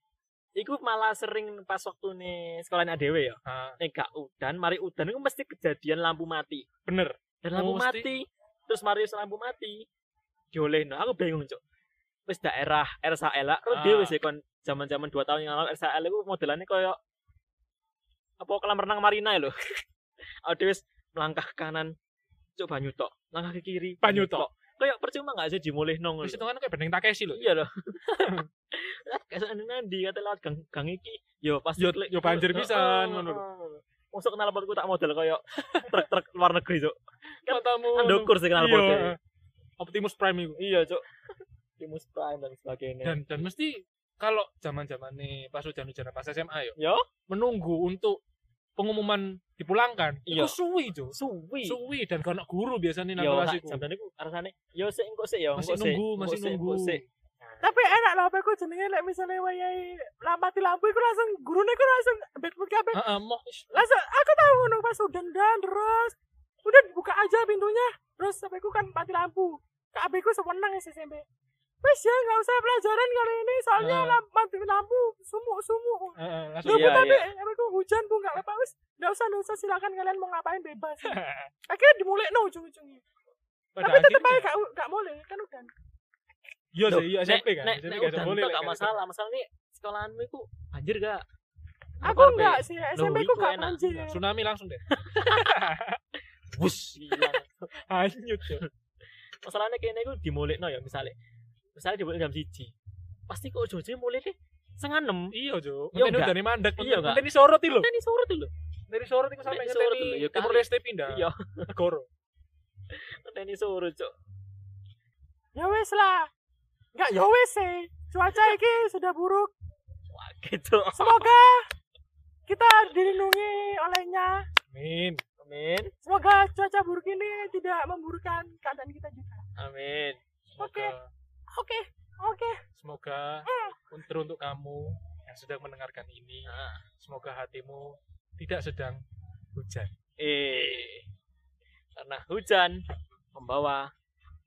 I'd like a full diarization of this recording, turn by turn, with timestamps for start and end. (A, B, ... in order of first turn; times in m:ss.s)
0:00.6-0:06.7 A
0:03.5-0:03.8 B
0:06.9-0:08.1 B
0:07.4-0:09.9 A
0:10.5-0:11.6 A
0:12.3-0:17.0 A
0:13.7-0:14.2 B
0:18.4-0:19.8 A
0:20.4-0:21.9 A
0:22.6-0:26.4 A
0:24.0-0:24.5 B
0:26.2-0:27.5 B
0:27.3-0:39.2 A
0:31.8-0:33.4 B
0:37.4-0:39.2 B
0:39.8-0:40.6 B
0:40.6-0:41.0 A
0:41.8-0:43.2 A
0:43.0-0:46.8 B
0:46.8-0:47.0 A
0:47.3-0:48.2 B
0:48.8-0:53.8 B
0:50.3-0:50.6 A
0:51.1-0:51.8 A
0:53.2-0:57.7 A
0:55.6-0:57.0 B
0:57.6-1:03.1 C
1:02.9-1:03.8 B
1:03.7-1:11.2 C
1:11.8-1:23.0 C
1:13.8-1:14.2 B
1:16.2-1:17.0 B
1:16.7-1:17.3 A
1:21.0-1:21.5 B
1:23.8-1:24.5 B
1:23.8-1:25.7 C
1:26.7-1:29.0 B
1:26.9-1:31.2 A
1:32.0-1:34.0 A
1:32.0-1:34.2 C
1:34.1-1:36.0 B
1:34.9-1:35.5 A
1:36.6-1:37.3 B
1:36.6-1:37.7 A
1:37.9-1:38.7 B
1:39.4-1:41.2 A
1:41.8-1:42.7 A
1:43.3-1:45.4 A
1:45.3-1:47.9 B
1:45.9-1:48.5 A
1:48.9-1:52.1 B
1:49.5-1:51.7 A
1:52.9-1:54.1 A
1:55.6-1:56.3 C
1:57.0-1:59.5 C
2:00.1-2:01.2 A
2:01.0-2:01.6 C
2:02.5-2:04.5 C
2:04.7-2:05.2 B
2:05.4-2:05.9 A
2:06.0-2:09.4 C
2:09.6-2:10.2 A
2:10.5-2:11.1 B
2:10.6-2:10.9 C
2:11.5-2:12.6 C
2:12.8-2:19.0 B
2:13.5-2:13.8 C
2:16.5-2:16.8 A
2:19.5-2:19.9 B
2:20.2-2:21.1 A
2:22.0-2:22.8 A
2:23.3-2:23.9 A